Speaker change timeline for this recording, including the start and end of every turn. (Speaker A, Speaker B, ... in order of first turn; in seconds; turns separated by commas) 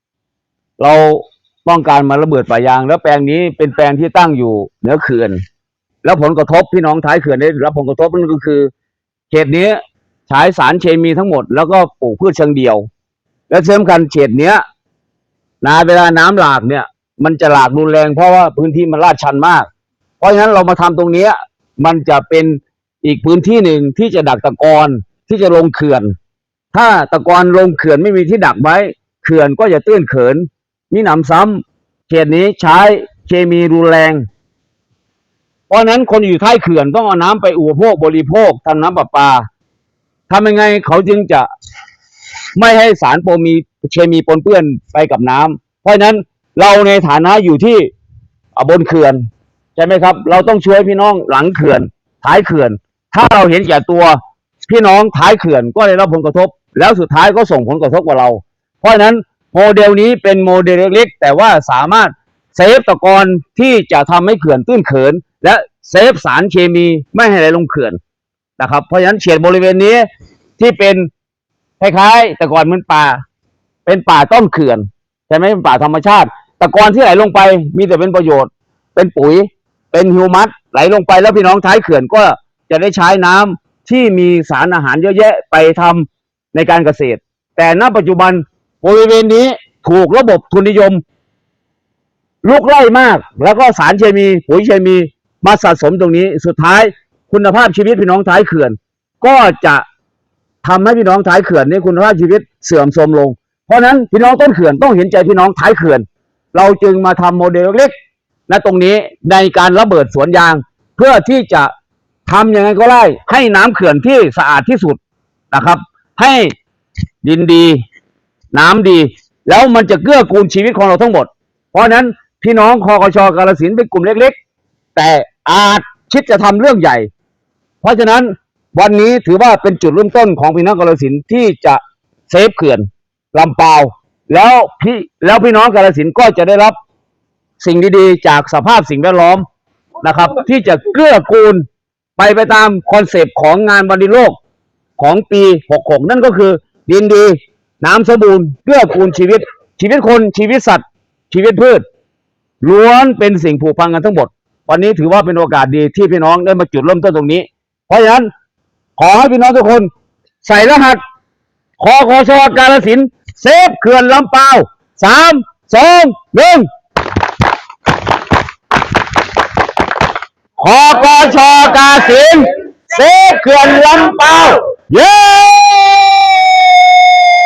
Speaker A: 0.8-5.4, Speaker A: 6.0-8.7, Speaker A: 9.3-12.8, Speaker A: 13.5-14.6, Speaker A: 15.6-19.7, Speaker A: 20.2-26.1, Speaker A: 26.7-34.2, Speaker A: 35.7-39.5, Speaker A: 40.3-41.5, Speaker A: 42.5-47.9, Speaker A: 48.5-49.2, Speaker A: 49.8-68.0, Speaker A: 68.6-70.0, Speaker A: 70.6-71.1, Speaker A: 71.8-73.2, Speaker A: 73.8-91.0, Speaker A: 92.4-99.8, Speaker A: 100.6-107.9, Speaker A: 108.5-111.7, Speaker A: 112.2-115.0, Speaker A: 115.5-116.5, Speaker A: 117.2-117.8, Speaker A: 118.5-124.3, Speaker A: 124.9-127.1, Speaker A: 127.8-136.7, Speaker A: 137.6-139.4, Speaker A: 140.0-141.6, Speaker A: 142.2-144.3, Speaker A: 145.0-151.8, Speaker A: 152.6-158.3, Speaker A: 159.0-159.9, Speaker A: 160.4-161.0, Speaker A: 161.8-166.7, Speaker A: 170.6-176.3